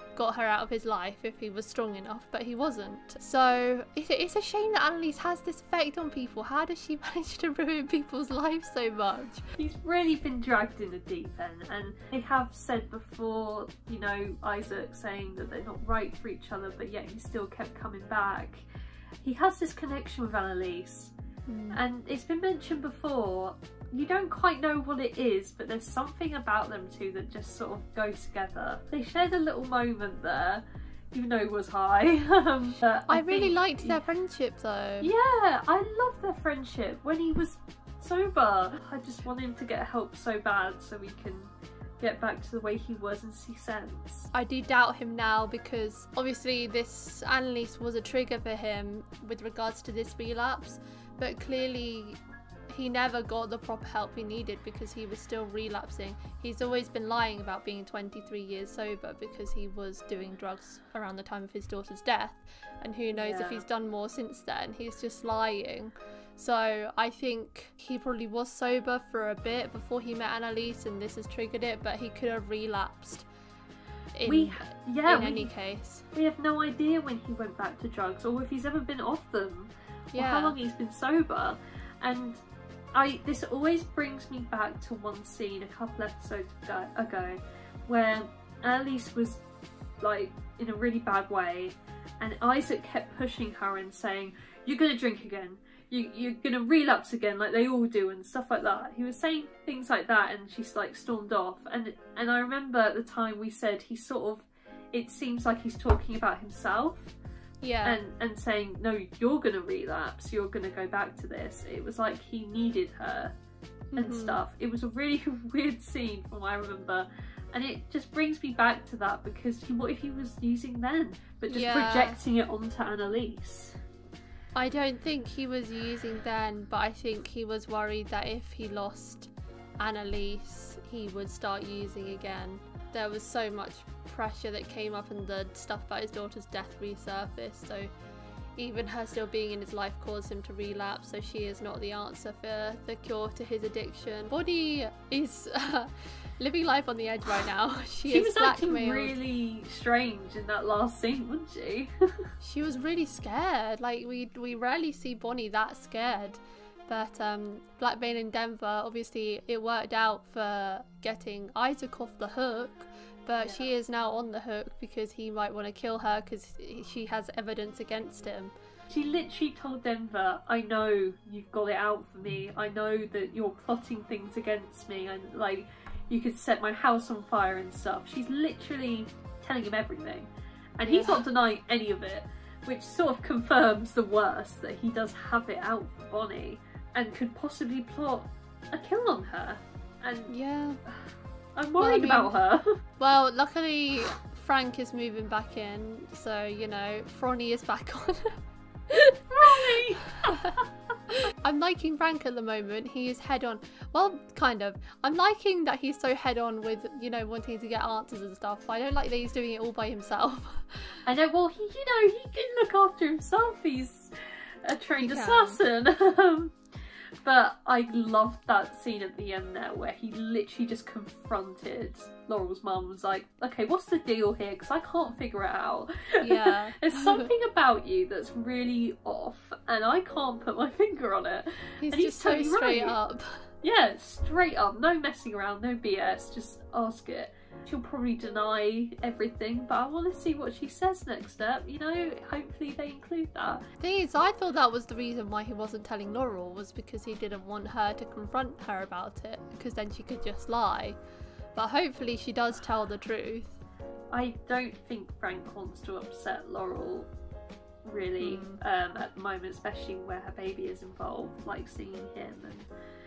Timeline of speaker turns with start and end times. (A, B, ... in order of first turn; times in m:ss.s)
0:00.2-0:09.4 A
0:09.6-0:18.6 B
0:19.2-0:21.1 B
0:21.5-0:21.8 A
0:21.7-0:34.0 B
0:33.1-0:35.1 A
0:35.0-0:44.3 B
0:44.3-0:52.2 A
0:52.7-1:13.3 A
1:03.1-1:03.6 B
1:14.2-1:16.0 A
1:14.3-1:15.5 B
1:16.1-1:22.4 B
1:20.1-1:20.6 A
1:22.9-1:29.4 B
1:30.0-1:47.1 B
1:47.6-1:48.0 A
1:47.8-1:53.3 B
1:53.9-1:54.4 A
1:54.0-2:03.8 B
2:01.5-2:02.2 A
2:04.6-2:17.9 A
2:18.6-2:29.2 A
2:28.1-2:32.3 B
2:32.4-2:48.5 A
2:43.4-2:43.7 B
2:48.9-3:10.3 B
3:00.8-3:01.2 A
3:10.3-3:10.8 A
3:11.6-3:12.8 B
3:11.8-3:12.4 A
3:13.0-3:18.4 A
3:18.9-3:20.5 A
3:19.3-3:20.6 B
3:21.1-3:31.0 A
3:31.1-3:34.1 B
3:34.6-3:36.6 B
3:35.0-3:35.6 A
3:37.2-3:53.0 B
3:46.2-3:47.3 A
3:51.8-3:53.5 A
3:53.6-4:03.6 B
4:03.8-4:11.0 A
4:11.6-4:13.6 A
4:14.1-4:17.1 B
4:17.8-4:22.7 B
4:18.2-4:18.6 A